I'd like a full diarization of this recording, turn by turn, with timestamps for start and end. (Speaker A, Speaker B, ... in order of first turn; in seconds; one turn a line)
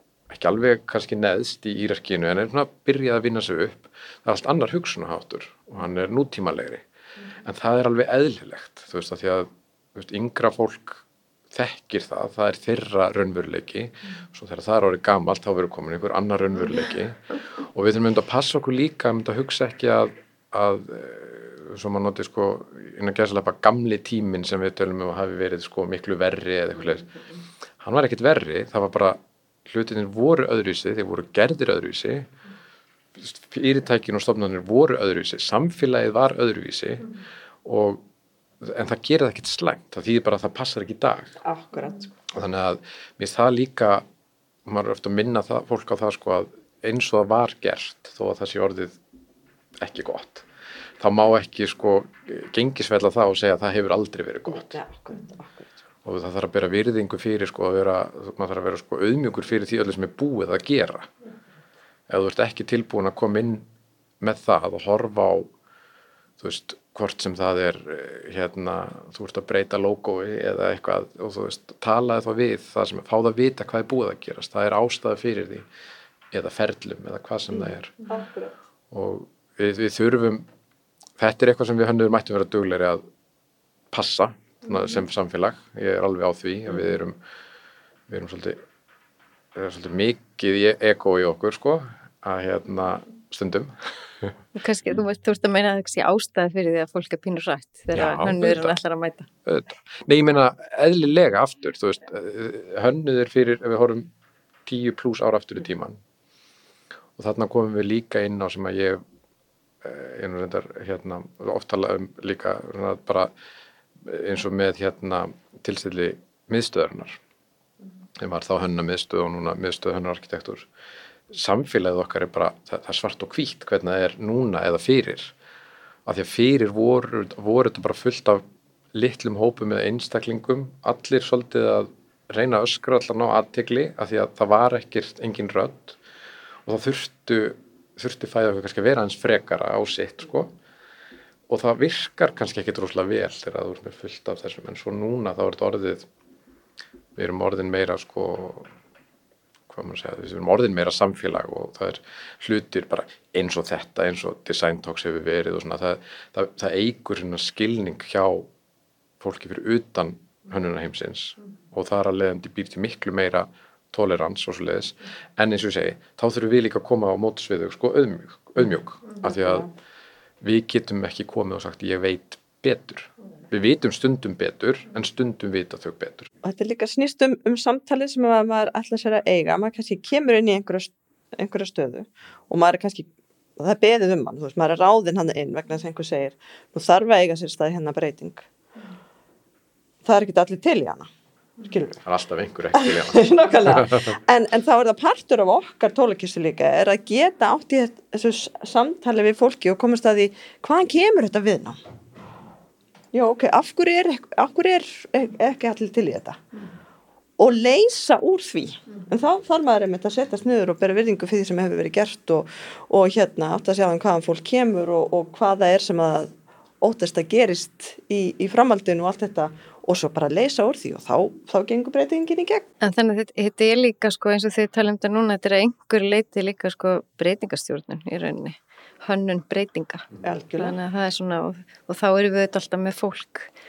Speaker A: 0.3-6.8
Speaker A: 7.4-27.1
Speaker A: 27.8-32.3
Speaker A: 33.2-37.1
Speaker A: 37.6-38.0
Speaker A: 38.6-41.3
Speaker B: 41.4-42.1
Speaker A: 42.3-44.0
Speaker A: 44.6-49.0
Speaker A: 49.8-50.5
Speaker A: 51.0-54.8
Speaker B: 54.5-55.8
Speaker A: 56.0-61.1
Speaker A: 62.1-63.6
Speaker A: 64.2-65.5
Speaker A: 66.4-75.7
Speaker A: 76.3-78.0
Speaker B: 78.1-78.5
Speaker A: 78.9-80.5
Speaker A: 81.2-83.0
Speaker A: 83.9-87.2
Speaker A: 88.1-88.6
Speaker A: 89.5-94.4
Speaker C: 94.6-99.3
Speaker A: 97.9-98.8
Speaker A: 99.5-104.1
Speaker A: 104.7-106.0
Speaker A: 107.2-109.0
Speaker A: 109.8-113.3
Speaker A: 114.0-117.2
Speaker A: 118.2-120.7
Speaker A: 121.3-125.3
Speaker A: 126.1-136.0
Speaker A: 136.7-140.5
Speaker A: 141.5-146.1
Speaker A: 147.2-148.7
Speaker A: 149.7-158.5
Speaker A: 159.2-169.7
Speaker B: 169.2-169.7
Speaker A: 170.4-176.3
Speaker B: 176.4-188.5
Speaker B: 190.1-191.1
Speaker B: 191.6-192.0
Speaker A: 192.0-194.1
Speaker B: 192.7-201.8
Speaker B: 203.1-206.4
Speaker B: 207.4-222.7
Speaker C: 222.8-233.5
Speaker B: 230.2-230.8